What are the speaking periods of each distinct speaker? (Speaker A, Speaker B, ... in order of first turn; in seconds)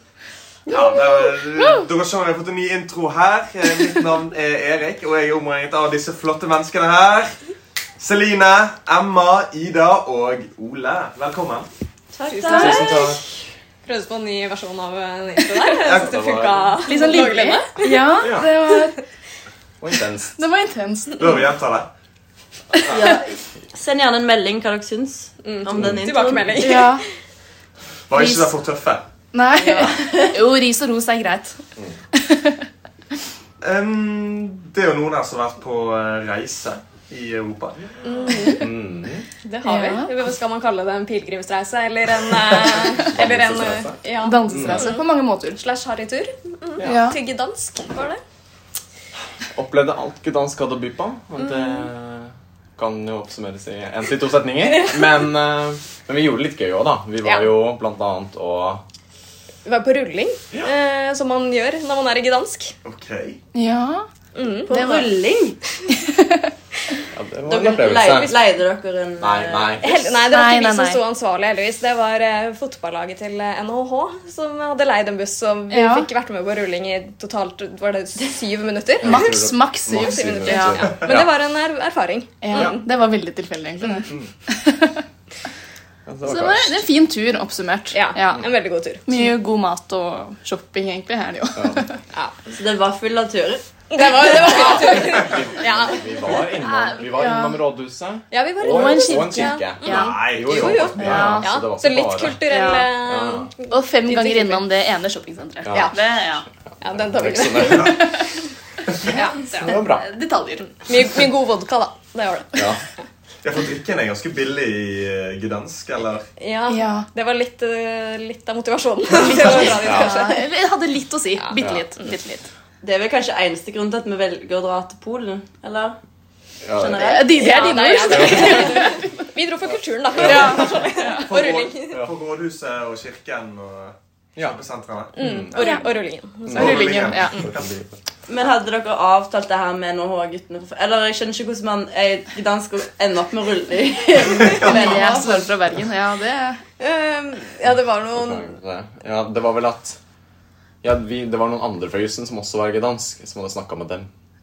Speaker A: 0.7-7.3, 8.0-11.7, 15.8-16.2, 21.2-21.9, 28.1-29.0, 33.6-37.8, 62.8-63.4, 99.8-101.4, 113.4-116.3, 131.3-135.1, 136.5-137.7
Speaker B: 12.1-12.9, 22.9-26.6, 29.5-30.4, 64.7-65.6, 67.5-69.8, 92.5-93.6, 94.2-94.8, 122.8-126.0, 126.7-127.3, 138.3-145.4
Speaker C: 12.3-13.2, 13.8-18.8, 25.4-27.0, 38.0-38.7, 39.4-48.2, 51.4-51.9, 57.2-57.5, 59.6-62.7, 64.3-64.7, 69.8-79.3, 79.9-82.8, 87.9-89.3, 93.9-96.5, 98.3-104.7, 106.8-108.2, 109.1-109.7, 110.8-112.7, 116.4-120.5, 127.3-132.0, 135.2-137.4, 146.8-148.5
Speaker D: 12.5-13.2, 15.9-16.9, 18.1-18.7, 19.8-20.3, 25.8-26.1, 38.5-39.3, 42.5-44.9, 46.8-47.1, 49.5-58.8, 67.1-68.4, 69.2-70.2, 79.0-81.3, 84.0-84.3, 86.0-86.8, 91.5-91.9, 94.7-103.5, 105.6-106.1, 106.7-108.2, 109.6-110.1, 112.5-112.8, 119.3-120.3, 121.5-121.9, 126.6-127.4, 128.1-128.8, 130.1-130.8, 131.8-132.1, 134.3-134.6, 135.2-135.8, 136.5-137.7, 147.7-150.0, 150.8-154.1
Speaker E: 16.8-19.0, 20.3-21.4, 26.6-27.0, 28.1-28.5, 29.3-31.6, 32.1-32.6, 39.6-40.3, 44.2-45.6, 46.8-47.2, 63.5-64.1, 64.7-65.1, 65.9-66.5, 70.3-71.0, 75.7-76.1, 79.0-80.9, 82.4-85.0, 86.2-88.5, 89.0-92.0, 96.2-97.7, 98.6-100.0, 101.0-101.5, 102.5-102.9, 103.7-106.4, 107.8-108.2, 109.0-110.9, 116.7-117.1, 119.1-122.5, 127.0-129.3, 130.2-131.3, 135.5-135.9, 136.5-137.4, 144.6-146.6